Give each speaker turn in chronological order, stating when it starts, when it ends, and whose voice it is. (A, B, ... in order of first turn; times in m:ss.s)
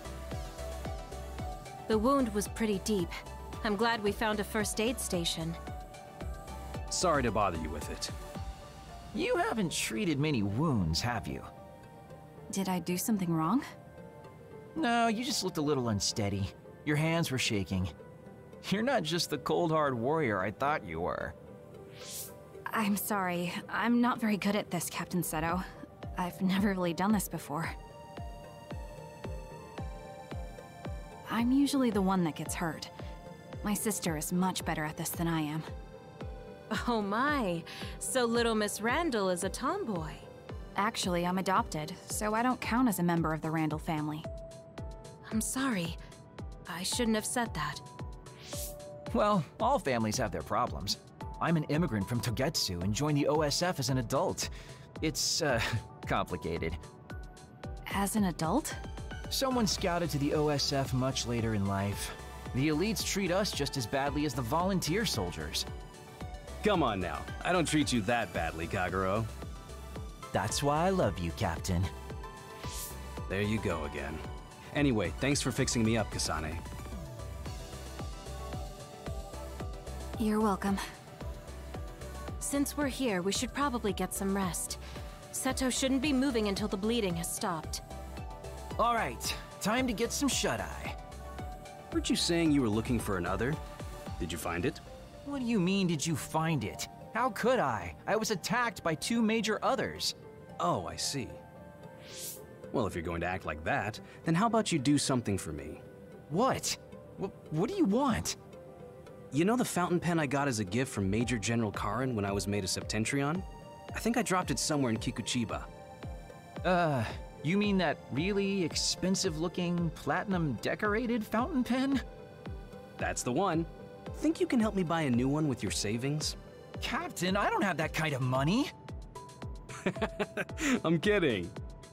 0:01.9-0:05.6 A
0:06.9-0:08.1 B
0:09.1-0:11.5 C
0:12.5-0:13.6 D
0:14.7-0:17.9 C
0:18.6-0:21.3 C
0:22.7-0:27.7 D
0:31.3-0:32.9 D
0:33.6-0:35.7 D
0:36.7-0:40.3 A
0:40.8-0:44.3 D
0:45.2-0:46.0 A
0:46.6-0:47.8 A
0:49.1-0:56.8 C
0:57.9-0:58.8 D
0:59.3-1:05.6 C
1:06.6-1:09.3 B
1:10.3-1:11.9 C
1:13.3-1:16.6 B
1:20.2-1:20.8 D
1:22.4-1:24.8 A
1:25.3-1:27.8 A
1:28.8-1:31.0 C
1:31.9-1:33.6 B
1:34.2-1:34.8 B
1:35.2-1:40.1 C
1:40.6-1:41.4 B
1:42.7-1:45.8 B
1:46.3-1:48.4 C
1:49.3-1:55.7 B
1:56.6-2:02.0 C
2:03.0-2:06.4 B
2:06.8-2:08.7 C
2:09.8-2:11.5 B